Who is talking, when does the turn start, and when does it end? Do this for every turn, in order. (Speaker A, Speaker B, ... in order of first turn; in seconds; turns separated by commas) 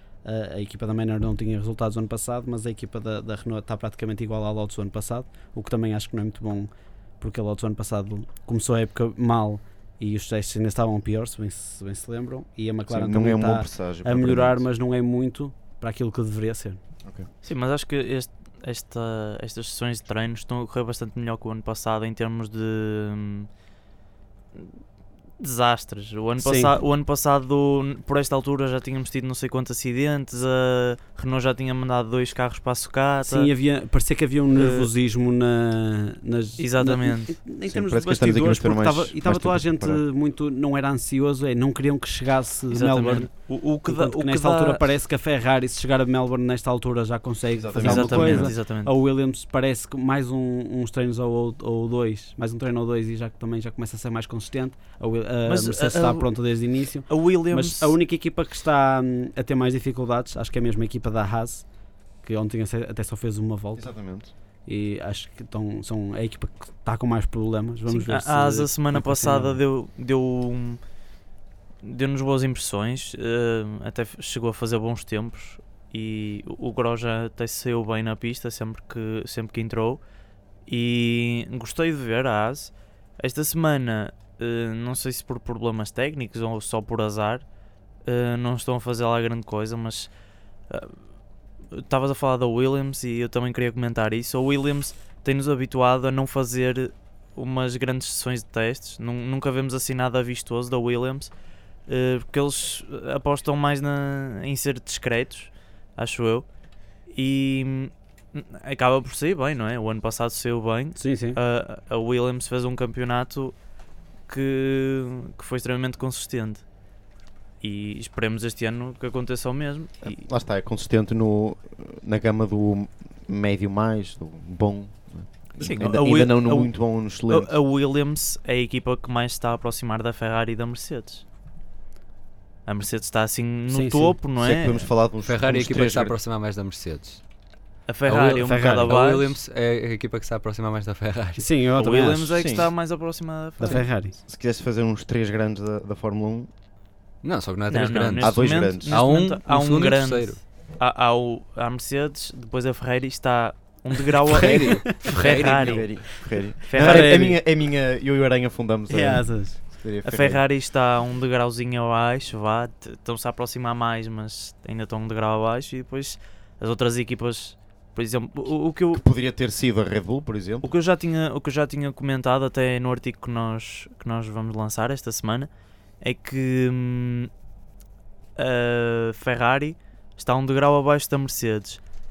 Speaker A: 0.2-16.8, Speaker B: 12.9-14.6, Speaker B: 17.0-17.3, Speaker C: 17.4-23.5, Speaker C: 25.4-33.5, Speaker A: 26.4-26.8, Speaker A: 33.2-43.3, Speaker C: 34.6-34.9, Speaker C: 36.6-37.4, Speaker B: 37.6-40.0, Speaker C: 42.7-44.8, Speaker A: 43.8-61.6, Speaker B: 47.5-48.5, Speaker C: 47.8-48.9, Speaker C: 55.5-56.2, Speaker C: 57.1-57.9, Speaker A: 62.2-63.9, Speaker B: 63.7-64.3, Speaker A: 64.7-69.6, Speaker C: 67.9-70.8, Speaker C: 71.8-80.0, Speaker C: 80.7-87.4, Speaker C: 88.0-90.1, Speaker C: 90.7-90.9, Speaker C: 91.7-101.3, Speaker C: 101.9-106.5, Speaker C: 107.1-113.5, Speaker A: 111.0-111.4, Speaker C: 114.3-116.6, Speaker C: 117.6-120.2, Speaker B: 120.0-127.5, Speaker C: 125.6-131.2, Speaker C: 132.7-134.9, Speaker A: 133.7-134.2, Speaker B: 134.4-136.2, Speaker D: 135.2-137.2, Speaker C: 137.9-139.3, Speaker D: 138.1-141.4, Speaker A: 138.4-138.9, Speaker A: 141.4-142.4, Speaker C: 141.8-143.8, Speaker B: 142.3-142.7, Speaker A: 143.6-144.2, Speaker B: 143.6-146.5, Speaker D: 147.2-150.4, Speaker C: 147.7-157.4, Speaker B: 148.2-149.0, Speaker D: 154.3-155.8, Speaker A: 154.4-155.1, Speaker B: 155.5-160.4, Speaker A: 156.6-157.4, Speaker A: 158.9-159.6, Speaker C: 160.0-169.0, Speaker B: 168.9-170.7, Speaker C: 170.6-175.5, Speaker C: 176.0-177.3, Speaker C: 178.3-181.8